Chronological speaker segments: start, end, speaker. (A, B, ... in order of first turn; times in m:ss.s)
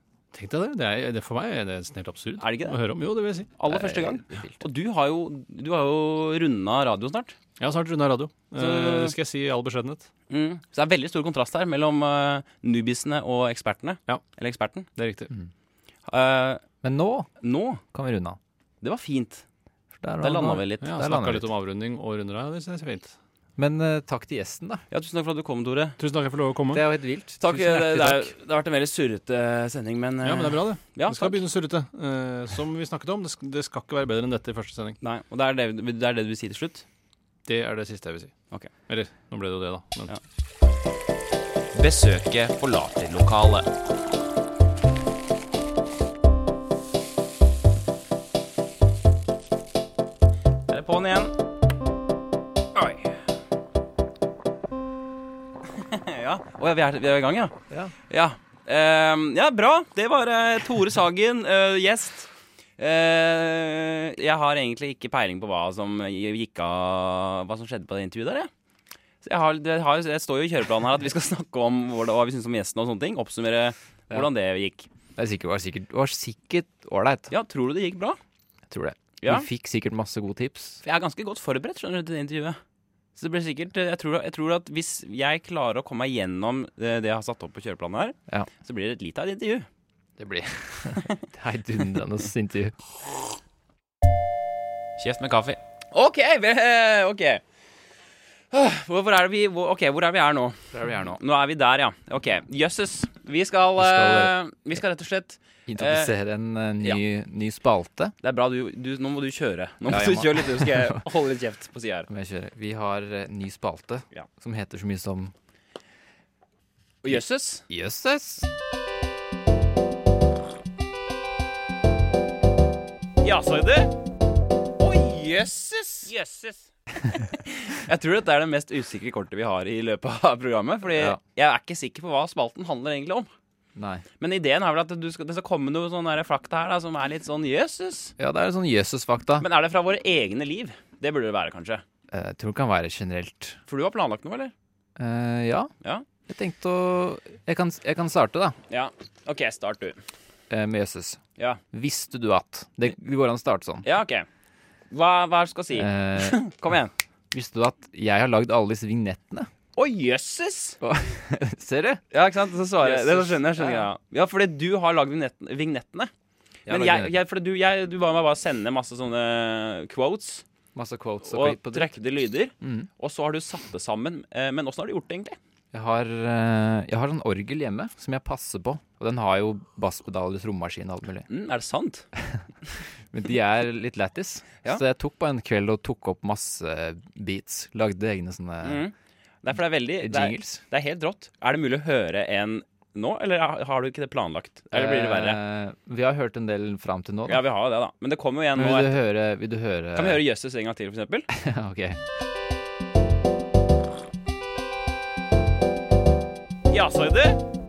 0:00.3-0:03.5 A
0:02.4-0:02.8 B
0:03.6-0:07.4 B
0:03.7-0:04.6 C
0:07.6-0:10.1 A
0:08.6-0:09.2 B
0:10.3-0:14.9 B
0:15.0-0:15.3 A
0:16.1-0:16.6 B
0:16.8-0:17.3 C
0:17.4-0:17.8 B
0:17.9-0:18.4 C
0:18.8-0:19.4 B
0:20.0-0:21.5 C
0:20.2-0:21.0 B
0:20.8-0:23.2 A
0:23.6-0:24.8 C
0:24.9-0:26.0 B
0:26.0-0:26.8 A
0:26.7-0:28.3 C
0:27.4-0:31.4 B
0:30.2-0:35.0 A
0:35.0-0:36.8 B
0:37.5-0:40.1 A
0:41.7-0:43.7 B
0:50.7-0:51.3 B
0:52.8-0:53.2 B
0:55.7-0:57.6 B
0:58.1-1:08.5 B
1:09.2-1:14.9 B
1:15.2-1:17.3 C
1:17.3-1:18.2 B
1:18.7-1:20.8 C
1:19.2-1:19.5 B
1:20.8-1:22.6 B
1:23.2-1:29.7 B
1:30.2-1:32.8 C
1:35.0-1:37.4 B
1:38.5-1:46.1 B
1:40.7-1:41.2 C
1:43.8-1:44.3 C
1:45.7-1:48.2 C
1:48.2-1:52.1 B
1:49.9-1:51.0 C
1:52.1-1:55.3 C
1:57.0-1:57.6 B
1:57.7-1:58.5 C
2:03.2-2:03.9 B
2:04.8-2:13.3 B
2:10.9-2:11.2 C
2:13.8-2:14.0 C
2:14.2-2:18.1 B
2:18.2-2:19.5 C
2:19.4-2:21.8 B
2:22.1-2:23.6 C
2:23.7-2:24.5 B
2:25.0-2:25.7 C
2:26.3-2:28.6 C
2:28.7-2:30.0 B
2:30.5-2:31.2 C
2:31.7-2:33.9 C
2:33.8-2:34.3 B
2:34.9-2:36.9 B
2:35.7-2:36.4 C
2:37.3-2:39.5 C
2:39.8-2:40.8 B
2:40.8-2:42.0 C
2:42.1-2:46.1 B
2:42.8-2:43.9 C
2:46.7-2:47.2 C
2:46.7-2:50.4 B
2:50.8-2:51.9 C
2:51.3-2:55.4 B
2:52.6-2:52.9 C
2:55.7-3:01.3 C
3:01.3-3:02.1 B
3:02.2-3:02.4 C
3:03.1-3:08.8 C
3:08.6-3:15.4 B
3:10.0-3:10.6 C
3:14.7-3:17.4 C
3:17.3-3:19.0 B
3:18.6-3:20.2 C
3:20.0-3:21.3 B
3:21.3-3:22.0 C
3:26.7-3:27.4 B